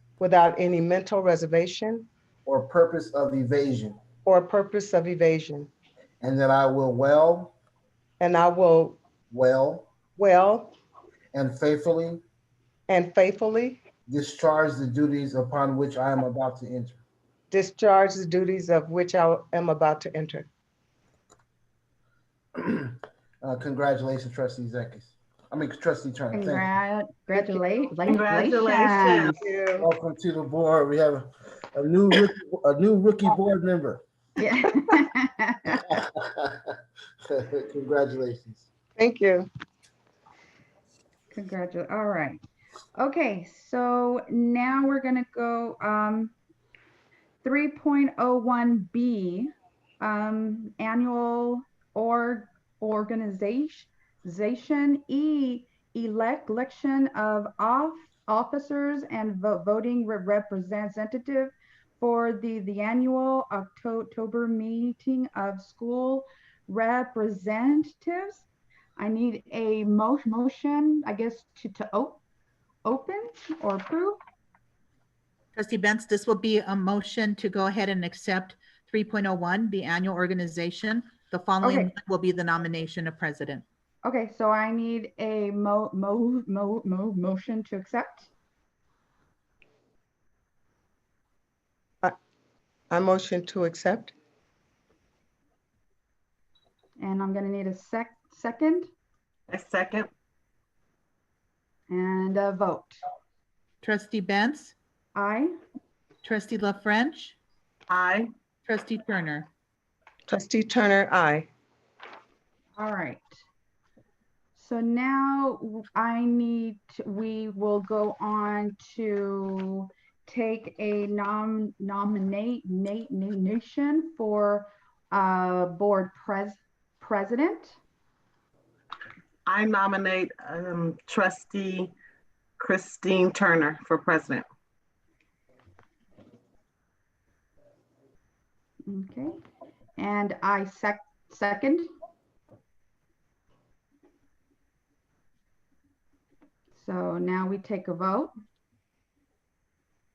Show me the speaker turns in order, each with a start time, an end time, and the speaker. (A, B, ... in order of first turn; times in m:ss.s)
0:00.2-0:02.1 A
0:02.4-0:04.0 B
0:04.2-0:05.7 A
0:06.2-0:07.5 B
0:08.2-0:09.0 A
0:09.3-0:09.9 B
0:10.2-0:10.7 A
0:11.3-0:12.2 B
0:12.9-0:13.8 A
0:14.1-0:17.0 B
0:17.5-0:20.5 A
0:22.5-0:26.7 B
0:26.3-0:29.4 C
0:27.3-0:27.6 A
0:28.0-0:29.4 D
0:28.8-0:29.9 A
0:29.8-0:34.0 B
0:34.4-0:35.8 C
0:35.8-0:36.7 B
0:37.3-0:38.7 B
0:39.0-0:39.5 A
0:41.3-0:42.4 C
0:42.9-0:46.3 C
0:47.4-1:08.4 C
1:09.0-1:12.2 C
1:12.8-1:14.2 C
1:15.5-1:23.6 E
1:21.6-1:21.9 C
1:24.0-1:28.3 C
1:32.9-1:34.1 A
1:37.0-1:38.9 C
1:39.5-1:40.1 D
1:41.9-1:43.0 C
1:43.8-1:44.7 E
1:45.1-1:45.6 C
1:46.2-1:47.4 E
1:47.9-1:48.3 D
1:48.6-1:49.5 E
1:50.3-1:51.5 A
1:52.8-1:53.4 C
1:54.5-2:07.8 C
2:09.5-2:11.9 D
2:12.6-2:14.4 D
2:18.9-2:19.4 C
2:20.0-2:21.9 C
2:26.7-2:28.3 C